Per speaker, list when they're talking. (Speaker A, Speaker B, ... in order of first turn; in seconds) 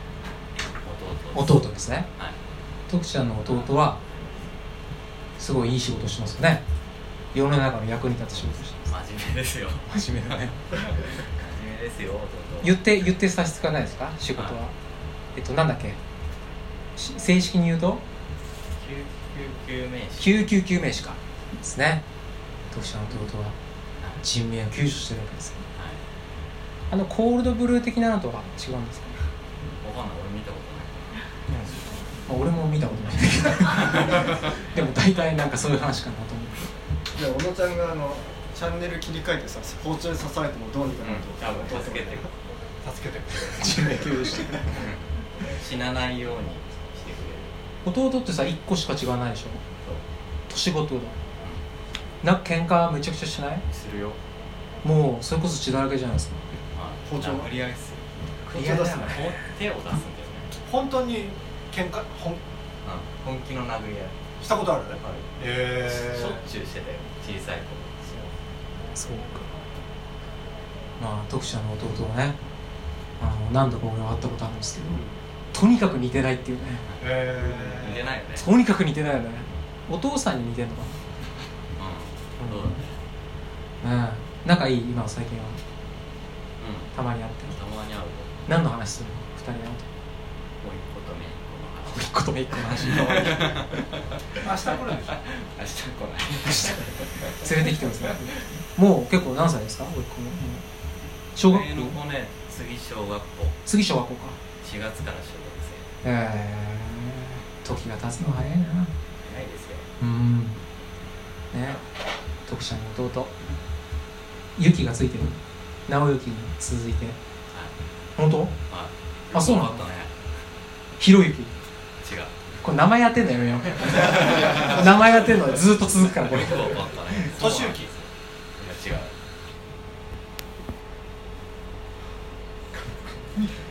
Speaker A: 0.8-1.6, 8.8-9.9, 11.1-12.8, 18.7-20.5, 25.7-26.0, 29.8-31.2, 41.0-42.3, 44.7-47.5, 53.7-54.2, 56.7-58.0, 58.7-60.5, 62.8-64.2, 64.9-65.3, 65.8-67.9, 77.8-78.5, 81.8-82.9, 86.6-86.9, 87.5-88.3, 90.6-93.8, 95.0-97.4, 101.4-103.6, 104.6-105.8, 109.2-109.9, 118.7-120.1, 122.0-122.3, 126.2-129.1
Speaker B: 1.3-2.1, 2.9-4.0, 5.4-6.6, 7.3-8.9, 9.9-10.6, 12.6-14.7, 15.3-16.0, 16.9-18.0, 20.2-22.0, 22.7-23.6, 24.2-25.6, 26.9-29.2, 31.5-36.7, 43.6-44.7, 47.8-49.6, 50.5-51.1, 52.2-53.6, 54.8-56.4, 58.5-59.3, 68.9-69.5, 71.0-72.4, 73.2-75.0, 75.5-76.8, 78.3-81.0, 82.4-82.8, 83.8-85.6, 86.9-87.6, 88.5-89.9, 91.9-93.5, 96.5-100.6, 101.3-102.0, 103.6-104.4, 106.0-108.9, 110.0-110.6, 111.5-111.8, 112.5-113.3, 114.5-117.2, 118.2-118.5, 119.3-119.8, 121.0-121.5, 122.6-126.8, 127.4-127.7
Speaker C: 37.1-42.2, 57.0-57.7, 58.5-59.2, 68.0-68.3, 77.4-77.8, 123.9-125.7
Speaker D: 42.8-44.0, 60.6-62.4, 64.4-66.4, 77.0-78.1, 94.3-95.1, 127.3-127.9